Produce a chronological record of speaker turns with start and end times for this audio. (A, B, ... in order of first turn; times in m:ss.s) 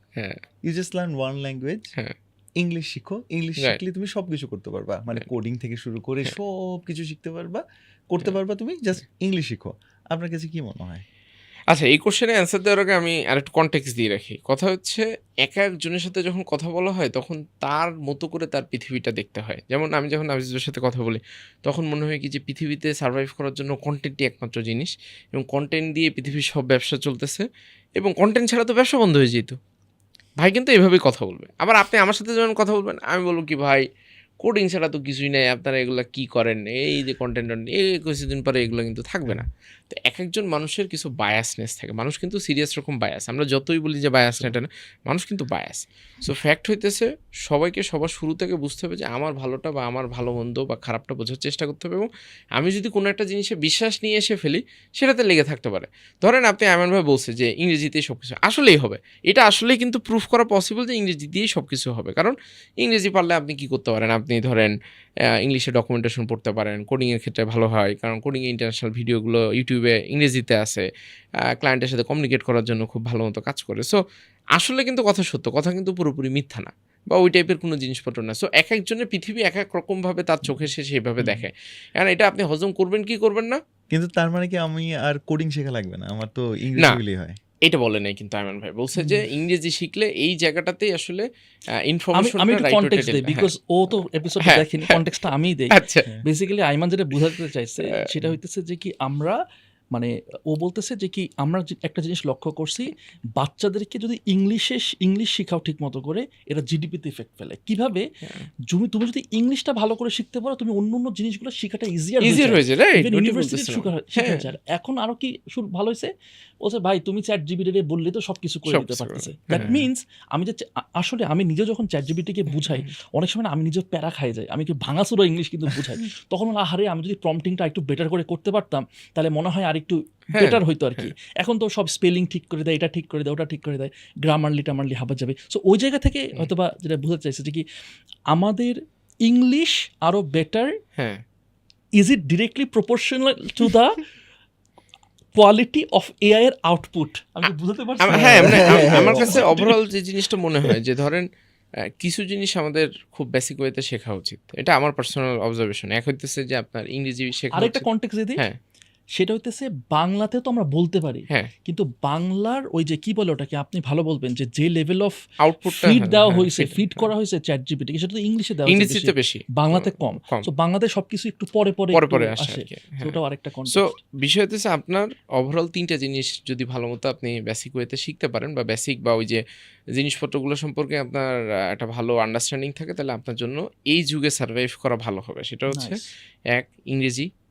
0:00.6-0:01.9 A
0:02.6-0:11.0 A
0:11.7-0:27.4 B
0:28.0-0:29.6 B
0:30.4-0:33.8 B
0:34.4-1:04.7 B
1:05.4-1:10.8 B
1:11.5-1:14.0 B
1:14.6-1:23.6 B
1:23.9-1:27.4 A
1:27.6-1:31.2 B
1:29.0-1:29.2 C
1:31.9-1:33.4 B
1:32.2-1:39.4 C
1:35.7-1:36.0 B
1:39.9-1:48.0 C
1:48.7-1:56.1 C
1:52.2-1:54.5 B
1:56.6-2:17.6 C
1:58.7-1:59.8 B
2:02.6-2:02.9 B
2:10.3-2:11.1 B
2:18.3-2:20.7 C
2:21.0-2:21.2 B
2:22.0-2:24.0 C
2:25.4-2:29.7 C
2:28.0-2:31.2 B
2:28.1-2:29.5 A
2:32.0-2:37.8 B
2:37.5-2:38.4 C
2:39.1-2:54.0 C
2:45.4-2:47.1 B
2:48.7-2:50.4 B
2:51.9-2:53.2 B
2:53.7-2:59.4 B
3:00.0-3:06.0 B
3:05.7-3:06.1 C
3:06.5-3:07.3 B